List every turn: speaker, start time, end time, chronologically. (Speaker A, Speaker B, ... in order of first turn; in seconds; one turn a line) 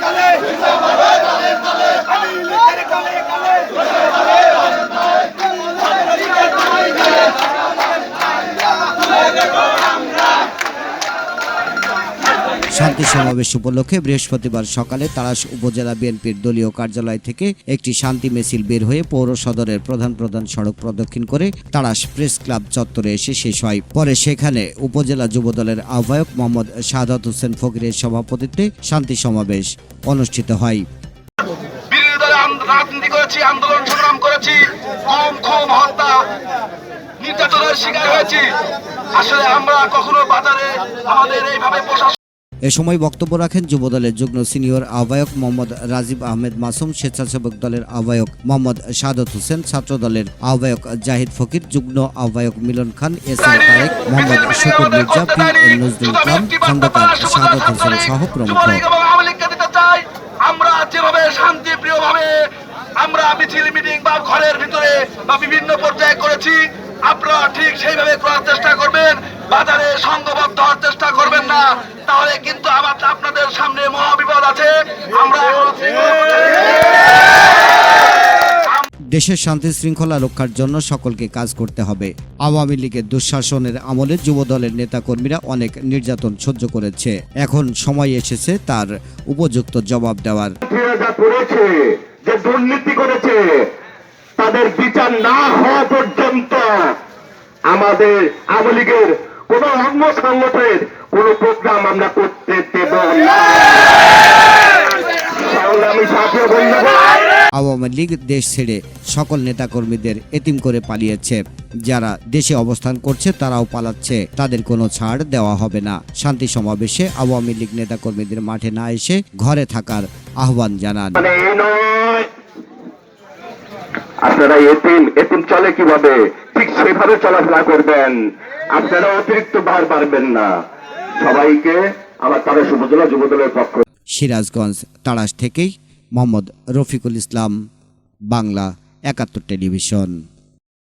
Speaker A: 12.7-30.9
Speaker B: 31.9-36.2
Speaker B: 37.2-38.5
Speaker B: 39.1-42.1
Speaker A: 42.7-58.8
Speaker B: 53.6-77.0
Speaker B: 78.6-78.9
Speaker A: 79.1-90.5
Speaker C: 90.6-93.7
Speaker C: 94.4-97.0
Speaker C: 97.7-103.9
Speaker C: 105.3-107.2
Speaker A: 107.6-121.2
Speaker C: 121.2-122.3
Speaker C: 124.2-128.2
Speaker C: 128.7-130.6
Speaker C: 131.2-133.8
Speaker A: 134.1-137.6
Speaker A: 138.3-140.2